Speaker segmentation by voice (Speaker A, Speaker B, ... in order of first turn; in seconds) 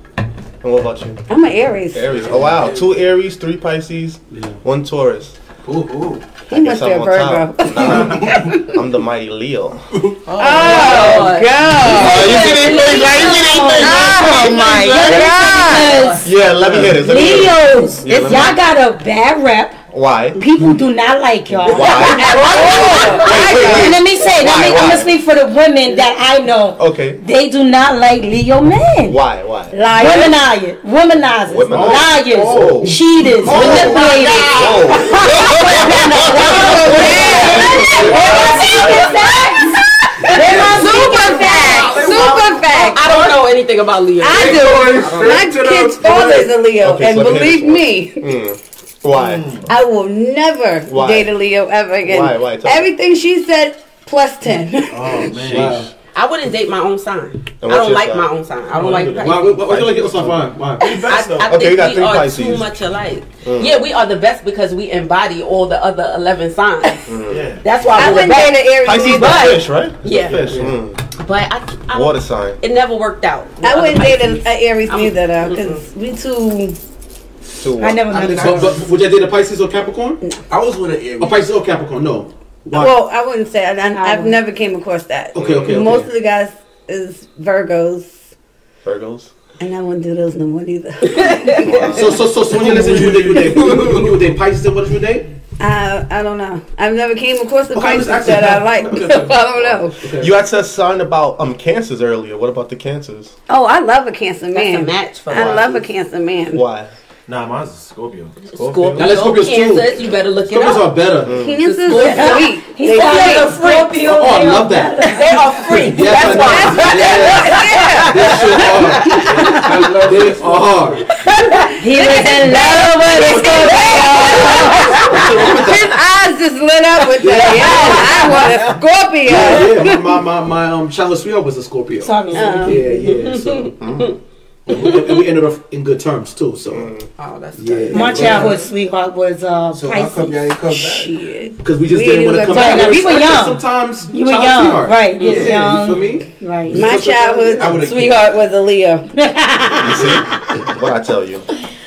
Speaker A: 0.6-1.2, 1.9-5.3, 6.5-9.8, 11.8-15.2, 16.2-18.6, 19.9-20.4, 21.5-25.1, 26.8-27.2, 29.1-29.8, 31.5-37.3, 46.8-49.5, 50.9-51.3, 52.0-52.9, 55.4-55.8, 57.6-58.3, 61.4-62.7, 63.4-63.8, 67.1-67.5, 68.8-71.0, 71.9-72.6, 77.6-78.1, 85.4-85.8, 88.8-89.3, 91.5-92.2, 99.6-103.3, 105.3-105.8, 106.5-106.9, 108.6-109.0, 111.2-111.6, 125.1-125.9, 133.8-134.1, 136.7-137.1, 149.8-151.4
Speaker B: 1.3-2.1, 6.5-8.8, 10.3-16.1, 21.6-24.0, 29.7-30.4, 33.9-34.7, 35.2-43.4, 44.2-48.3, 49.7-55.4, 67.9-69.6, 73.6-76.8, 82.7-88.1, 89.6-92.2, 95.6-100.0, 103.5-106.6, 111.3-113.6, 116.0-118.7, 121.3-130.1, 132.3-132.8, 140.7-143.3, 146.7-150.2
Speaker C: 2.1-2.4, 16.6-17.0, 31.7-32.8, 49.2-49.7, 54.9-55.9, 58.7-61.6, 67.3-67.7, 70.3-70.7, 107.3-109.1
Speaker D: 2.2-2.8, 5.6-6.2, 8.0-8.3, 10.3-11.2, 33.4-34.0, 37.0-39.2, 40.5-41.2, 41.8-42.4, 44.3-46.5, 78.2-78.9, 80.5-81.5, 92.5-94.1, 119.2-120.9, 139.7-141.1, 147.1-148.4
Speaker E: 4.3-4.6, 31.7-32.8, 40.3-42.5, 55.5-55.9, 59.1-60.9, 70.3-70.7, 78.1-80.2, 81.2-83.0, 85.3-86.1, 91.9-95.3, 97.7-99.5, 100.0-100.3, 109.0-111.4, 113.5-115.1, 115.7-121.1, 123.2-124.0, 125.1-125.6, 127.2-133.8, 134.7-136.9, 137.6-138.7, 141.6-148.2
Speaker F: 10.4-13.8, 15.6-16.2, 22.3-23.4, 33.6-35.5, 36.4-45.0, 56.1-59.6, 60.8-67.1, 67.6-70.4, 71.2-75.8, 84.0-84.3, 91.1-91.6, 104.5-105.8, 108.5-113.9, 115.1-119.3, 123.4-125.3, 127.5-128.4, 133.2-133.5, 134.8-135.0, 137.2-138.6, 145.2-145.5
Speaker G: 12.1-16.3, 16.9-19.8, 20.4-29.2, 29.9-34.6, 35.6-38.8, 40.5-41.0, 77.8-78.7, 111.9-115.8, 121.8-125.0, 132.0-133.1, 137.9-140.4, 142.4-146.8, 149.3-149.8